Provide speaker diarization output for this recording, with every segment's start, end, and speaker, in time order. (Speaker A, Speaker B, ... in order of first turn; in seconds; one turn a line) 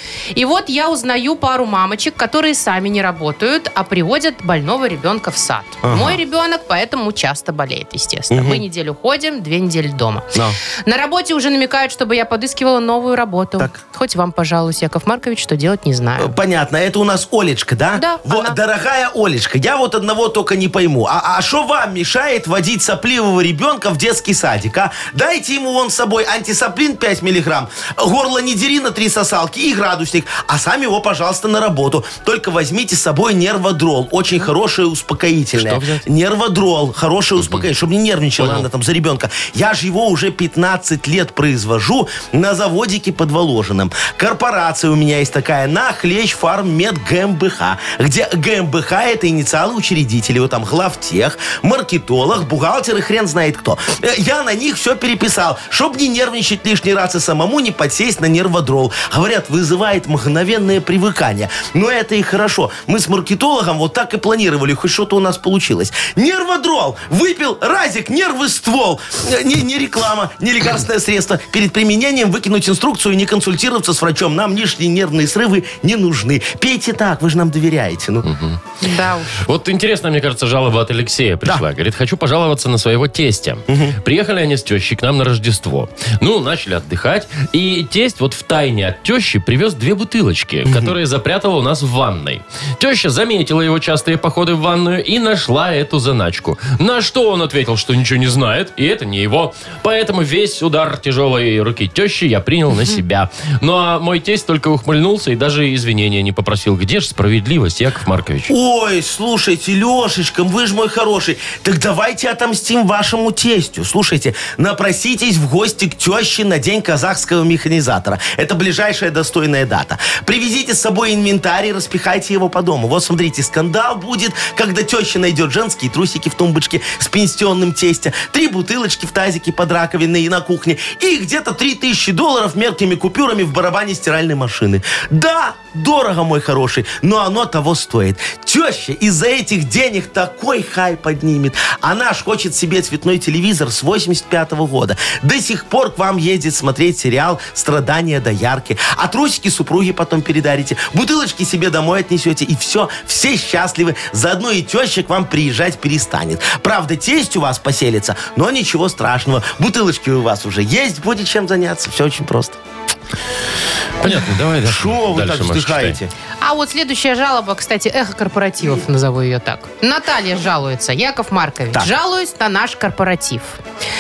Speaker A: 0.3-16.3
Speaker B: 5.8-6.2
Speaker B: 8.3-8.6
Speaker B: 16.2-78.3
Speaker A: 17.9-18.6
Speaker C: 35.5-36.0
Speaker C: 37.4-37.7
Speaker C: 38.4-38.7
Speaker C: 78.2-78.6
Speaker A: 78.8-79.4
Speaker C: 79.4-108.5
Speaker B: 83.7-84.0
Speaker B: 90.7-90.9
Speaker B: 108.5-162.6
Speaker C: 164.0-166.0
Speaker B: 164.6-166.1
Speaker A: 166.4-173.6